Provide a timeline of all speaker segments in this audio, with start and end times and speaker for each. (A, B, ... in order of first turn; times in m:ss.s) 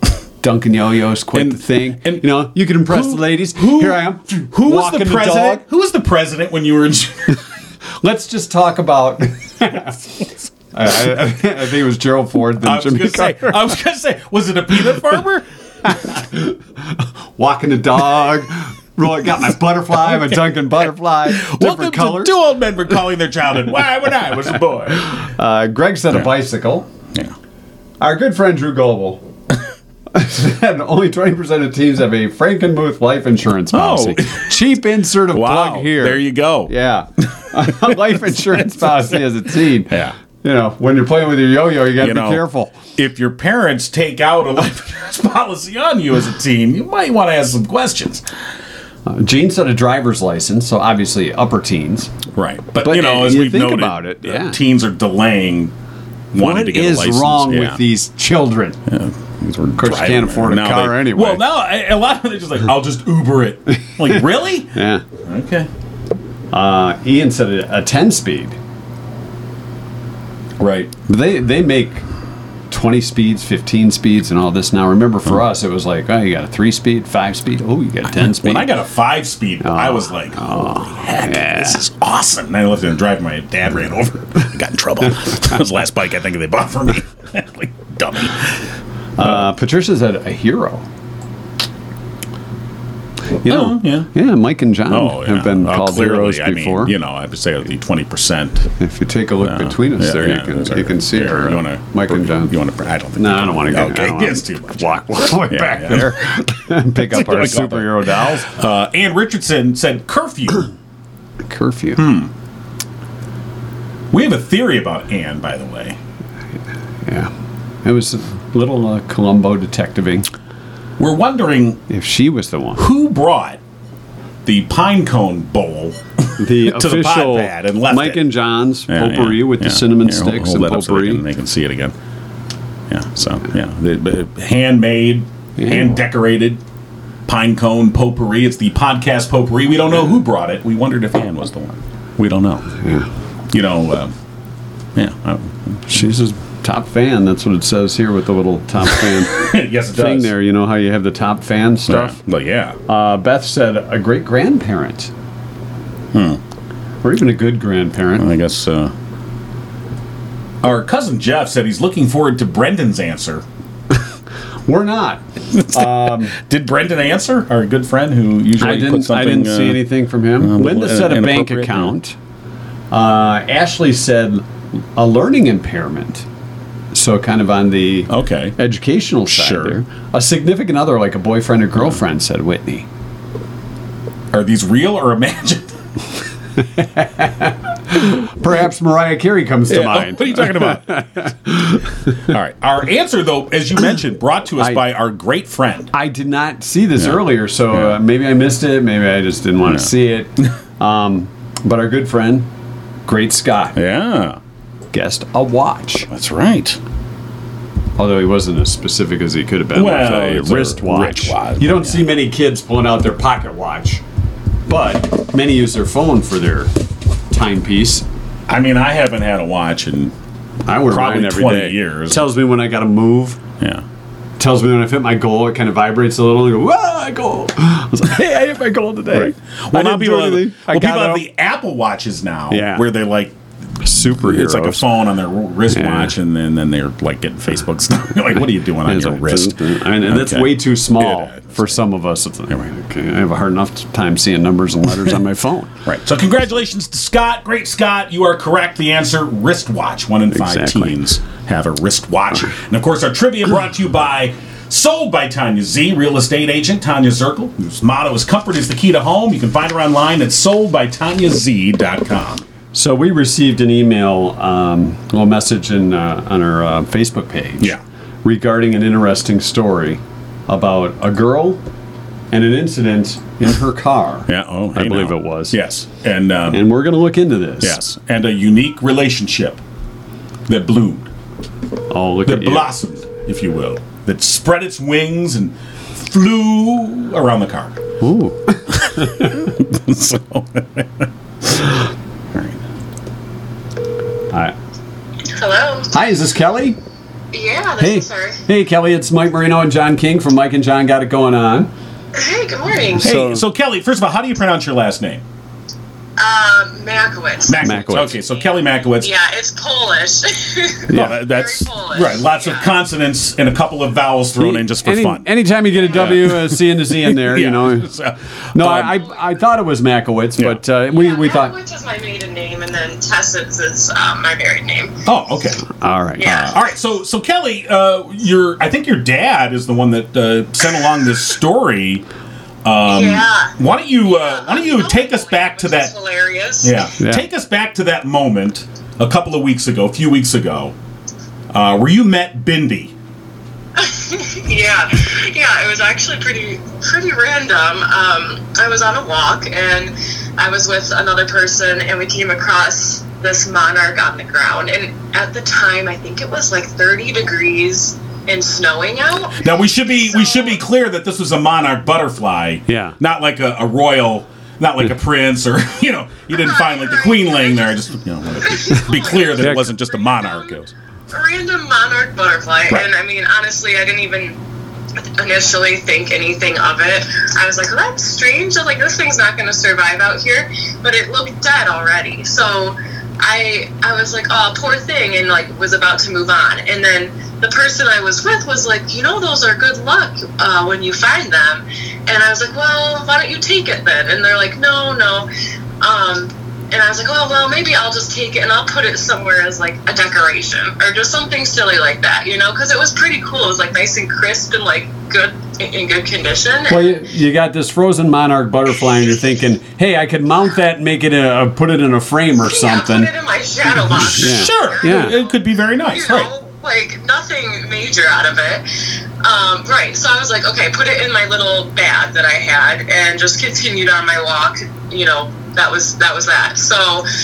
0:00.4-0:05.6 A
0:01.3-0:02.3 B
0:02.9-0:07.4 B
0:08.0-0:13.6 A
0:12.6-0:15.4 B
0:16.0-0:22.4 A
0:20.2-0:20.5 B
0:21.3-0:25.3 B
0:25.1-0:26.9 A
0:28.0-0:29.3 A
0:30.1-0:42.8 A
0:33.7-0:34.6 B
0:35.3-0:38.0 B
0:39.9-0:40.2 B
0:42.0-0:42.4 B
0:43.0-0:48.2 B
0:49.1-0:52.1 A
0:52.3-0:55.7 B
0:52.8-0:54.6 A
0:56.3-0:57.8 B
0:56.4-0:58.8 A
0:58.9-1:05.7 B
0:59.8-1:01.4 A
1:04.7-1:05.0 A
1:06.5-1:08.6 A
1:10.6-1:10.9 B
1:11.1-1:12.0 A
1:12.7-1:18.7 A
1:18.1-1:28.6 B
1:19.6-1:21.8 A
1:29.2-1:30.9 A
1:33.4-1:37.0 A
1:33.5-1:34.1 B
1:34.9-1:38.7 B
1:38.8-1:42.6 A
1:39.4-1:46.4 B
1:43.2-1:48.5 A
1:47.0-1:50.7 B
1:51.5-1:52.0 A
1:52.0-1:52.3 B
1:54.1-1:56.0 B
1:57.1-1:57.3 A
1:57.8-2:00.3 A
2:01.0-2:01.8 B
2:01.9-2:02.8 A
2:02.8-2:03.6 B
2:04.4-2:08.2 B
2:06.4-2:11.2 A
2:08.9-2:12.0 B
2:12.9-2:16.6 B
2:15.6-2:15.8 A
2:17.3-2:22.8 B
2:22.8-2:23.1 A
2:23.5-2:24.1 B
2:25.0-2:25.8 B
2:25.9-2:32.2 A
2:29.3-2:30.3 B
2:31.9-2:32.8 B
2:32.9-2:35.1 A
2:36.1-2:36.4 B
2:37.0-2:38.3 A
2:38.2-2:38.9 B
2:40.6-2:43.4 B
2:44.7-2:46.4 A
2:45.6-2:49.8 B
2:48.6-2:52.2 A
2:50.4-2:51.9 B
2:52.9-2:56.3 A
2:56.9-3:02.9 A
2:58.1-2:58.6 B
2:59.3-2:59.8 B
3:04.3-3:05.7 B
3:06.6-3:12.1 A
3:09.7-3:11.0 B
3:12.1-3:15.9 B
3:14.6-3:14.8 A
3:15.9-3:22.5 A
3:17.0-3:18.0 B
3:19.7-3:20.5 B
3:23.1-3:23.8 A
3:23.8-3:24.4 B
3:24.9-3:26.1 A
3:26.1-3:26.8 B
3:28.0-3:34.0 A
3:29.7-3:32.1 B
3:34.7-3:36.7 A
3:37.3-3:38.0 A
3:38.5-3:40.2 B
3:40.7-3:43.4 A
3:40.9-3:42.2 B
3:43.6-3:43.8 B
3:44.4-3:51.2 A
3:49.1-3:53.4 B
3:52.5-3:52.9 A
3:53.8-3:54.9 A
3:53.9-4:01.8 B
3:55.7-3:56.2 A
3:58.8-4:05.8 A
4:05.9-4:22.4 B
4:10.3-4:11.0 A
4:22.7-4:31.6 A
4:32.3-4:35.6 A
4:34.3-4:36.7 B
4:36.5-4:37.8 A
4:37.6-4:39.6 B
4:40.5-4:41.1 B
4:41.9-4:42.7 A
4:42.3-4:47.8 B
4:48.0-4:49.4 A
4:48.8-4:51.7 B
4:52.3-4:52.6 B
4:55.3-4:55.9 C
4:55.9-4:56.8 A
4:57.3-4:58.4 C
4:57.8-5:01.7 A
5:02.2-5:03.2 C
5:03.0-5:03.5 A
5:03.0-5:05.2 B
5:06.2-5:12.7 C
5:07.4-5:09.1 B
5:07.6-5:08.2 A
5:10.9-5:11.2 A
5:10.9-5:15.3 B
5:14.4-5:17.9 A
5:15.9-5:19.1 B
5:18.5-5:21.5 A
5:20.9-5:25.0 C
5:25.1-5:25.7 B
5:25.8-5:26.5 A
5:26.2-5:26.6 C
5:26.2-5:32.0 B
5:32.6-5:35.9 B
5:32.9-5:36.8 C
5:36.6-5:40.8 B
5:41.5-5:42.9 B
5:43.8-6:00.6 C
5:59.4-6:10.7 B
6:02.7-6:03.0 A
6:06.3-6:07.8 C
6:08.4-6:10.6 C
6:09.4-6:09.7 A
6:11.1-6:14.4 C
6:15.2-6:35.3 C
6:35.8-6:47.0 C
6:46.7-6:53.1 A
6:52.4-6:58.7 C
6:54.1-6:55.2 A
6:54.1-6:56.3 B
6:59.2-7:07.1 C